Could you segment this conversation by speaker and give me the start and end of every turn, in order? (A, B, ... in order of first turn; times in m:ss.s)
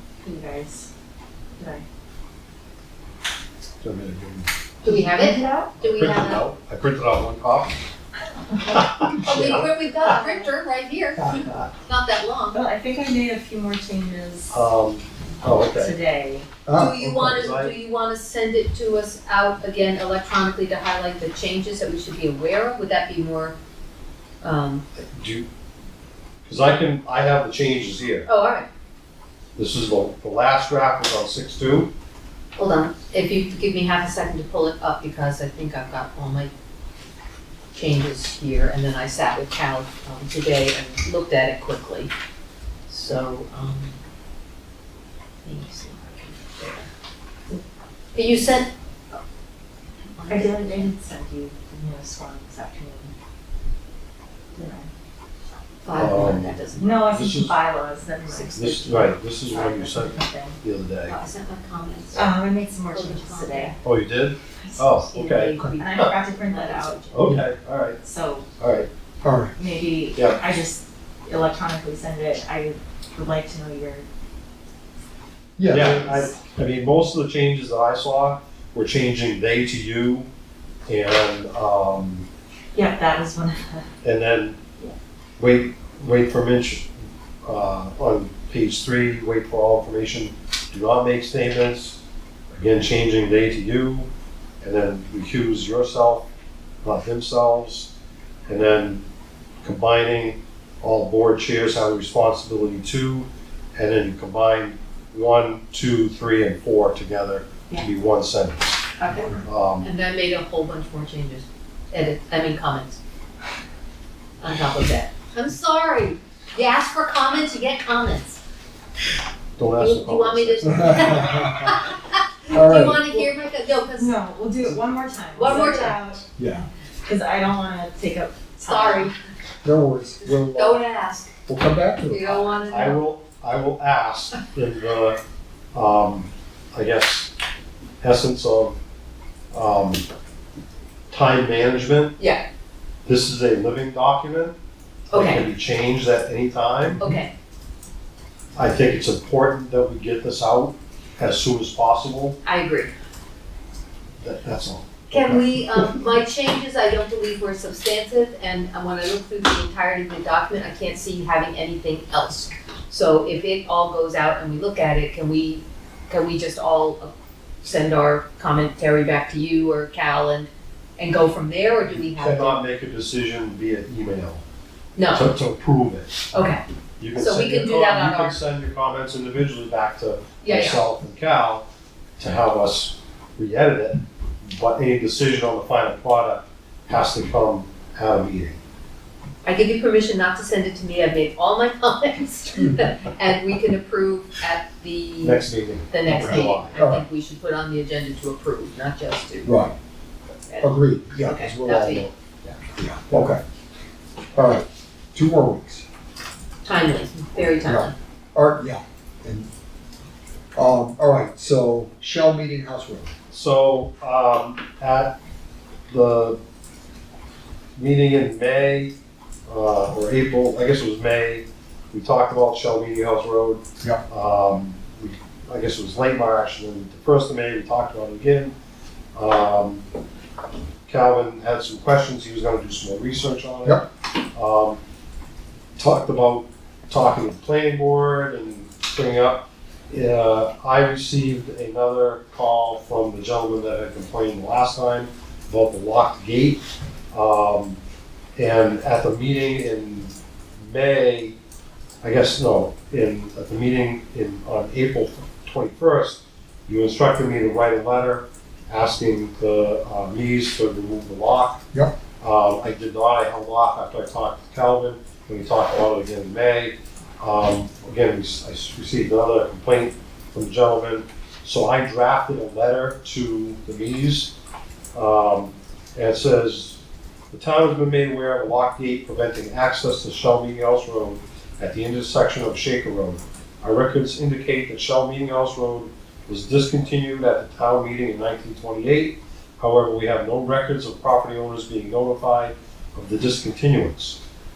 0:00.2-0:00.9 A
0:01.6-0:01.8 A
0:03.8-0:04.5 B
0:04.8-0:06.4 C
0:04.9-0:05.7 A
0:05.8-0:07.8 B
0:08.7-0:10.1 B
0:09.2-0:12.6 C
0:12.5-0:14.6 A
0:14.5-0:16.0 B
0:15.7-0:16.5 A
0:16.6-0:16.9 D
0:16.7-0:23.6 C
0:16.8-0:17.7 B
0:24.4-0:24.8 C
0:25.0-0:25.4 B
0:26.4-0:28.3 B
0:28.3-0:28.6 C
0:29.6-0:31.9 B
0:32.6-0:36.5 C
0:37.7-0:42.1 C
0:42.9-0:44.0 C
0:45.4-0:46.9 C
0:48.1-0:48.7 C
0:50.2-0:50.9 C
0:50.3-0:53.1 A
0:54.5-0:54.9 A
0:55.8-0:57.1 C
0:56.0-0:57.5 B
0:56.8-1:00.6 A
0:58.3-0:58.5 C
0:58.5-1:01.2 B
1:01.1-1:02.3 C
1:02.1-1:03.7 A
1:02.9-1:03.8 C
1:03.8-1:06.1 B
1:04.9-1:07.4 C
1:05.8-1:07.0 A
1:07.1-1:08.0 B
1:08.0-1:08.5 A
1:08.6-1:08.9 B
1:09.2-1:09.5 D
1:09.6-1:14.0 A
1:10.2-1:10.4 B
1:15.6-1:16.2 D
1:15.7-1:20.3 B
1:20.9-1:22.3 B
1:22.7-1:23.8 A
1:24.0-1:24.6 B
1:25.4-1:26.9 B
1:27.4-1:32.0 B
1:32.6-1:34.1 B
1:34.6-1:36.3 B
1:36.8-1:37.9 B
1:38.5-1:39.0 B
1:39.6-1:48.9 B
1:49.0-1:53.0 C
1:49.2-1:49.4 D
1:49.4-1:49.9 B
1:54.4-1:58.4 C
1:59.6-2:01.5 B
1:59.8-2:04.2 C
2:00.6-2:01.8 D
2:02.5-2:03.1 D
2:04.0-2:06.2 A
2:05.4-2:06.0 C
2:06.4-2:06.7 D
2:07.0-2:09.1 A
2:08.6-2:09.1 C
2:09.6-2:10.8 D
2:10.2-2:11.3 C
2:11.5-2:12.5 D
2:12.1-2:13.0 C
2:12.6-2:15.2 B
2:15.7-2:17.3 B
2:18.0-2:18.8 B
2:19.5-2:20.0 B
2:21.1-2:22.1 B
2:22.2-2:22.4 C
2:23.0-2:24.5 B
2:25.1-2:27.0 B
2:25.1-2:25.5 C
2:27.0-2:27.3 C
2:28.6-2:32.4 B
2:32.4-2:32.9 C
2:34.2-2:36.0 B
2:35.1-2:47.1 C
2:47.6-2:52.6 C
2:52.1-2:54.4 B
2:55.0-2:55.3 C
2:55.1-2:56.3 B
2:56.3-2:56.6 C
2:57.0-3:01.6 B
2:57.2-2:58.4 C
3:00.4-3:00.8 C
3:02.2-3:08.6 B
3:09.4-3:19.6 C
3:15.2-3:16.8 B
3:16.1-3:17.0 D
3:19.4-3:19.7 D
3:20.5-3:22.1 C
3:20.6-3:23.4 D
3:24.3-3:25.8 D
3:26.6-3:27.9 C
3:27.6-3:29.5 D
3:30.5-3:33.1 D
3:33.3-3:35.2 B
3:35.9-3:36.4 B
3:37.8-3:38.9 B
3:39.5-3:48.5 B
3:49.2-3:49.8 B
3:50.9-3:54.8 B
3:55.8-4:07.8 B
4:08.4-4:11.4 B
4:12.0-4:21.6 B
4:22.2-4:34.3 B
4:34.9-4:36.8 B
4:37.3-4:54.2 B